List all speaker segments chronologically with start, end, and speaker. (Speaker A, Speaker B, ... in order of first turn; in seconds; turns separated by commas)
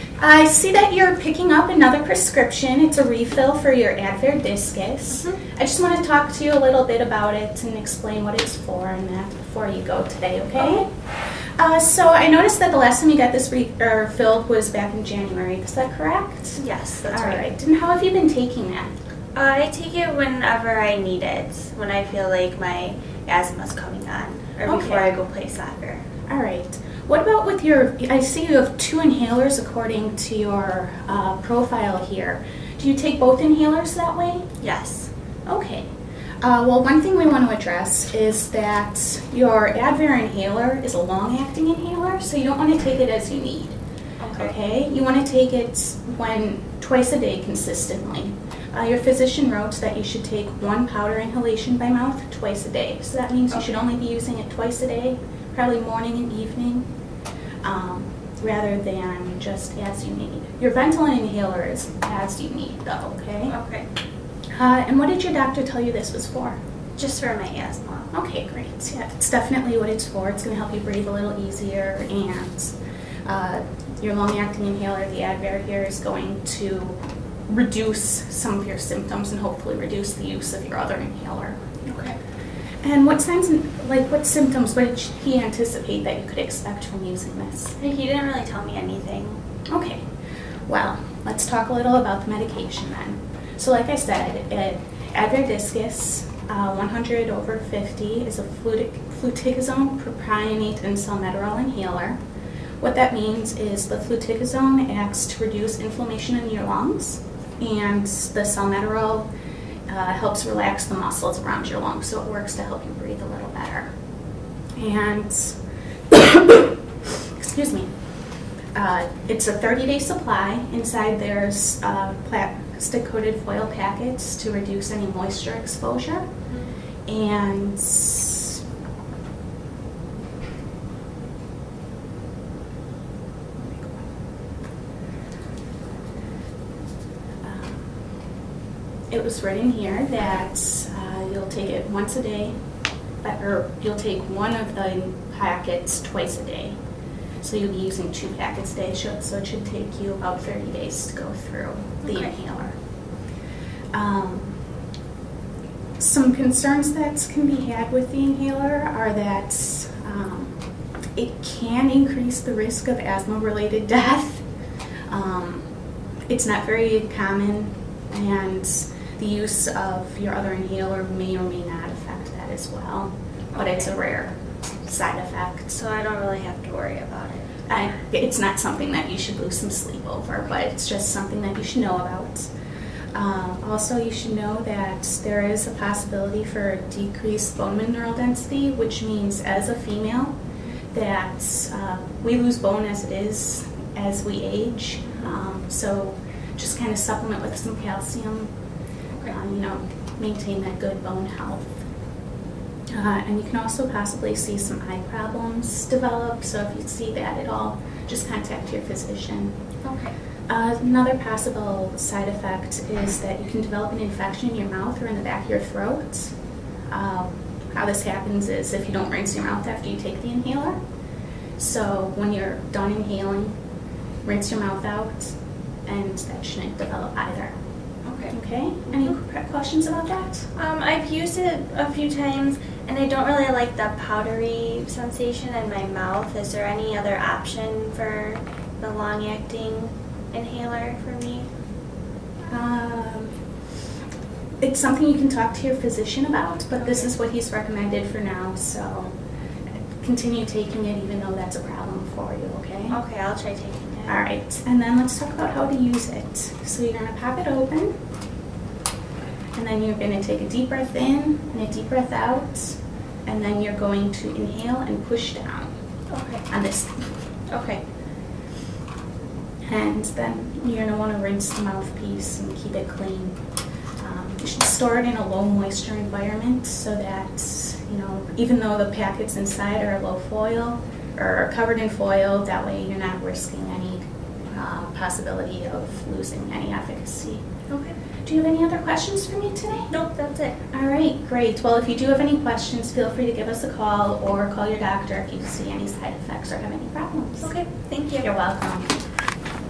Speaker A: 0.2-18.9, Speaker B: 5.1-5.4, Speaker B: 10.6-10.9, Speaker B: 16.6-17.4, Speaker B: 19.4-26.0, Speaker A: 24.7-25.1, Speaker A: 26.3-34.5, Speaker B: 34.6-35.1, Speaker A: 35.5-35.9, Speaker A: 36.4-43.8, Speaker B: 44.2-44.5, Speaker A: 44.4-56.9, Speaker A: 57.6-63.5, Speaker B: 63.5-63.9, Speaker A: 64.5-66.6, Speaker B: 67.0-68.1, Speaker A: 68.1-72.7, Speaker A: 73.2-81.8, Speaker B: 81.9-82.2, Speaker A: 82.8-87.8, Speaker B: 87.8-89.4, Speaker A: 89.7-90.1, Speaker A: 90.7-102.2, Speaker A: 102.8-109.3, Speaker A: 109.9-113.9, Speaker A: 114.7-116.7, Speaker A: 117.3-126.3, Speaker A: 127.0-128.5, Speaker A: 133.6-134.1, Speaker A: 137.4-138.0, Speaker A: 139.1-142.6, Speaker A: 143.2-146.8, Speaker A: 147.4-152.8, Speaker B: 152.0-152.3, Speaker A: 153.9-154.6, Speaker A: 156.0-160.6, Speaker A: 161.1-164.5, Speaker A: 165.1-165.7, Speaker A: 166.3-175.7, Speaker B: 173.5-173.9, Speaker B: 175.7-177.5, Speaker A: 177.7-182.5, Speaker A: 183.1-190.4, Speaker A: 190.9-198.5, Speaker A: 199.3-201.8, Speaker A: 202.9-209.6, Speaker B: 209.8-210.1, Speaker A: 210.5-216.3, Speaker A: 216.9-220.8, Speaker A: 221.6-223.6, Speaker A: 224.2-227.6, Speaker B: 228.0-228.3, Speaker A: 228.3-230.5, Speaker B: 230.5-241.5, Speaker A: 242.5-243.4, Speaker A: 244.6-249.2, Speaker B: 246.8-247.1, Speaker A: 249.8-253.0, Speaker B: 252.9-254.2, Speaker A: 254.1-258.0, Speaker A: 259.6-265.7, Speaker B: 266.1-266.5, Speaker A: 266.5-267.3, Speaker B: 267.5-267.8, Speaker A: 269.7-273.4, Speaker A: 274.0-287.4, Speaker B: 287.7-287.9, Speaker A: 288.2-289.9, Speaker B: 289.9-290.6, Speaker A: 290.7-297.5, Speaker B: 297.4-298.3, Speaker A: 298.2-299.0